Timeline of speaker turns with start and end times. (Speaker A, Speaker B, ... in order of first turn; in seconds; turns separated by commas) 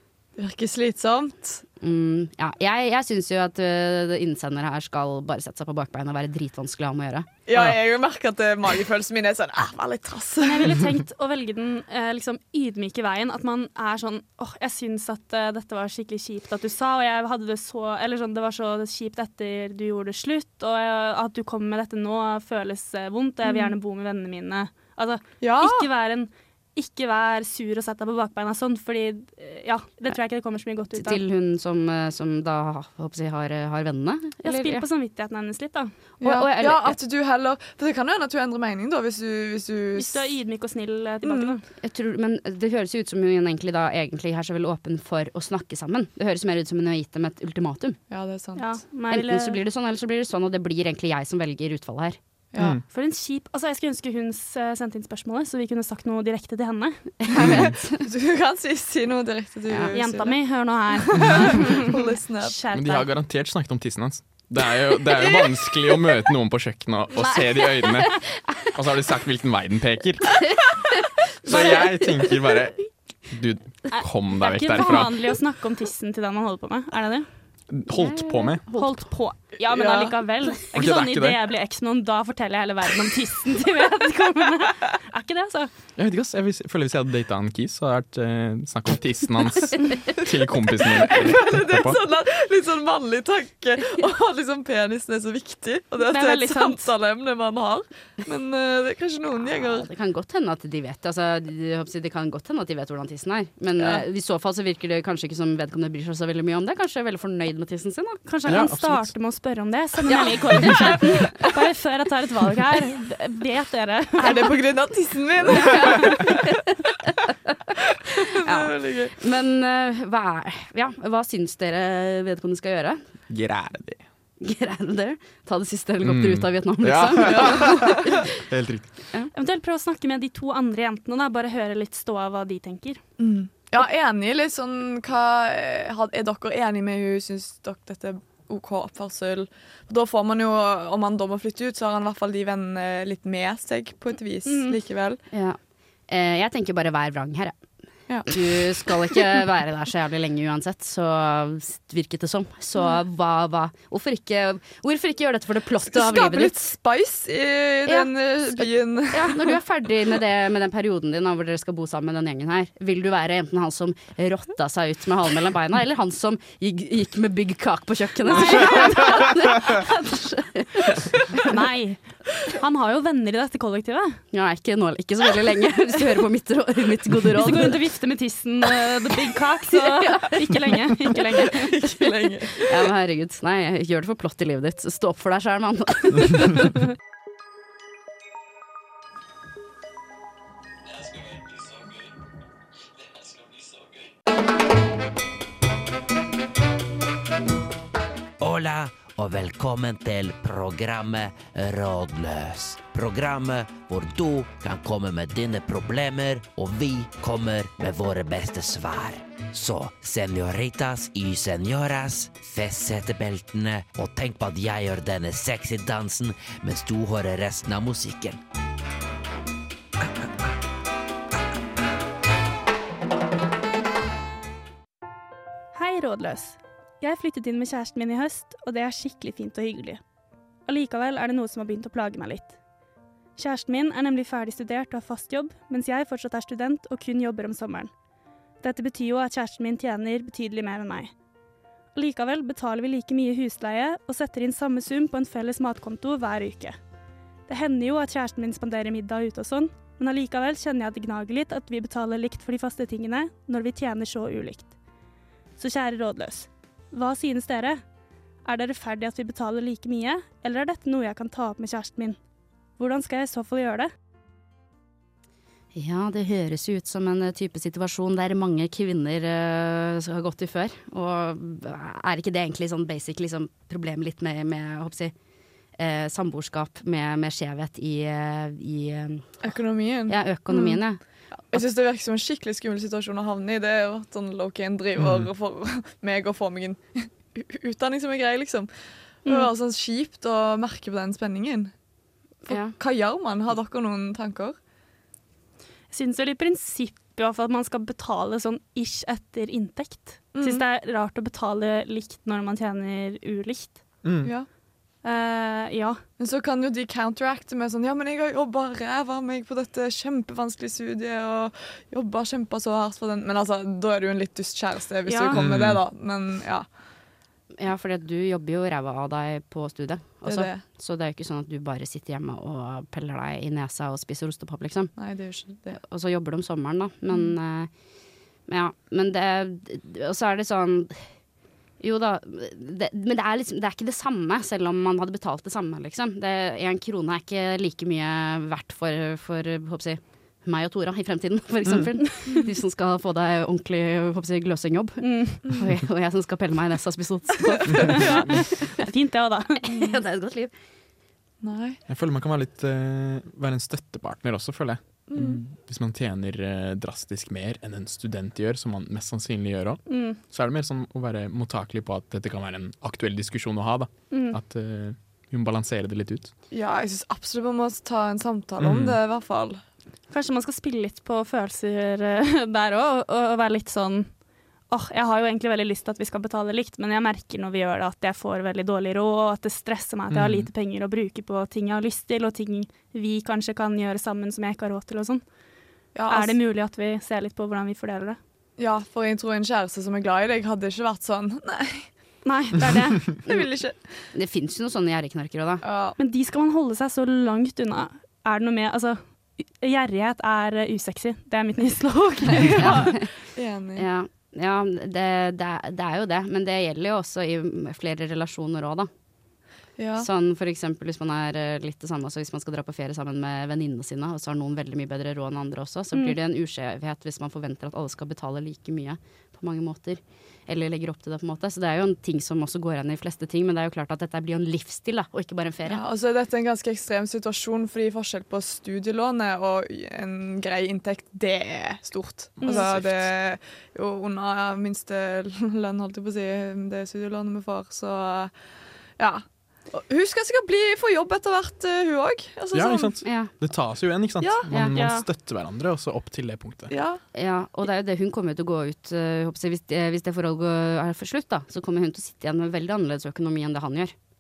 Speaker A: 0.4-1.6, Speaker B: 1.8-7.3, Speaker A: 7.5-10.8, Speaker C: 10.4-31.2, Speaker A: 23.5-23.7, Speaker A: 25.4-25.9, Speaker B: 30.9-34.9, Speaker C: 34.4-35.9, Speaker A: 36.2-40.3, Speaker B: 36.2-37.0, Speaker C: 40.0-41.6, Speaker A: 41.2-41.6, Speaker B: 41.8-48.0, Speaker A: 48.1-48.7, Speaker C: 48.6-49.6, Speaker B: 49.1-52.2, Speaker A: 52.5-52.8, Speaker C: 52.9-57.0, Speaker B: 57.2-58.0, Speaker D: 57.4-57.8, Speaker A: 57.4-60.4, Speaker B: 59.7-60.0, Speaker C: 59.9-63.1, Speaker A: 61.0-62.6, Speaker D: 62.7-68.2, Speaker D: 68.7-70.7, Speaker D: 71.5-75.3, Speaker C: 71.5-71.8, Speaker C: 73.9-77.3, Speaker D: 77.7-78.6, Speaker B: 77.9-79.0, Speaker C: 78.7-85.7, Speaker A: 79.7-80.2, Speaker D: 80.7-81.4, Speaker D: 86.0-92.0, Speaker A: 91.0-99.9, Speaker C: 96.0-96.9, Speaker B: 99.5-108.2, Speaker C: 108.3-114.6, Speaker D: 108.5-109.1, Speaker B: 110.1-111.3, Speaker A: 114.2-116.5, Speaker C: 115.6-116.3, Speaker A: 118.1-119.2, Speaker B: 118.4-123.0, Speaker D: 123.3-124.0, Speaker B: 124.4-128.3, Speaker D: 126.0-128.9, Speaker A: 127.3-128.0, Speaker C: 129.3-133.0, Speaker A: 133.2-145.2, Speaker C: 144.5-144.8, Speaker B: 145.3-145.6, Speaker B: 146.1-147.6, Speaker A: 148.1-149.2, Speaker B: 148.3-156.7, Speaker A: 155.9-159.6, Speaker B: 157.9-171.5, Speaker C: 168.2-169.8, Speaker C: 171.4-174.2, Speaker B: 174.3-177.8, Speaker C: 177.2-181.9, Speaker B: 180.0-180.3, Speaker A: 181.6-182.8, Speaker B: 182.5-186.7, Speaker E: 198.4-218.4, Speaker C: 225.7-230.0, Speaker C: 230.7-232.6, Speaker C: 233.4-237.9, Speaker C: 238.6-241.1, Speaker C: 241.9-246.8, Speaker C: 247.5-254.7, Speaker C: 255.6-257.8, Speaker C: 258.4-262.2, Speaker C: 262.8-263.9, Speaker B: 265.8-275.1, Speaker B: 275.8-279.3, Speaker A: 279.4-280.8, Speaker B: 280.1-281.0, Speaker A: 281.5-288.7, Speaker D: 285.0-285.2, Speaker A: 289.2-291.7, Speaker C: 289.3-289.5, Speaker B: 292.5-292.8, Speaker A: 292.5-294.6, Speaker C: 295.9-303.8, Speaker A: 300.3-300.6, Speaker D: 304.0-304.3, Speaker C: 305.0-306.0, Speaker A: 306.2-316.7, Speaker C: 315.1-315.4, Speaker D: 315.3-315.8, Speaker B: 317.6-324.9, Speaker A: 320.2-320.6, Speaker A: 325.0-325.8, Speaker B: 325.7-327.7, Speaker B: 328.5-331.0, Speaker B: 331.8-348.5, Speaker C: 345.0-345.5, Speaker C: 347.7-349.6, Speaker B: 349.6-350.5, Speaker A: 351.4-351.8, Speaker D: 351.9-366.3, Speaker A: 355.1-355.4, Speaker C: 359.9-360.2, Speaker C: 364.1-364.4, Speaker A: 366.5-369.6, Speaker D: 368.6-369.0, Speaker C: 370.1-374.1, Speaker C: 374.7-385.2, Speaker D: 380.1-380.5, Speaker A: 385.9-386.4, Speaker C: 386.1-388.2, Speaker A: 388.6-391.9, Speaker C: 392.2-393.1, Speaker A: 393.2-393.8, Speaker B: 394.1-395.6, Speaker A: 395.6-396.0, Speaker C: 396.0-402.9, Speaker A: 402.4-403.9, Speaker B: 402.5-403.1, Speaker B: 403.8-408.9, Speaker A: 409.8-410.1, Speaker B: 410.0-425.8, Speaker A: 425.7-438.3, Speaker C: 432.4-432.8, Speaker D: 432.4-432.9, Speaker A: 439.0-443.0, Speaker D: 442.5-446.7, Speaker B: 443.0-443.3, Speaker A: 444.2-444.5, Speaker C: 444.7-445.1, Speaker A: 446.7-447.0, Speaker B: 447.1-453.9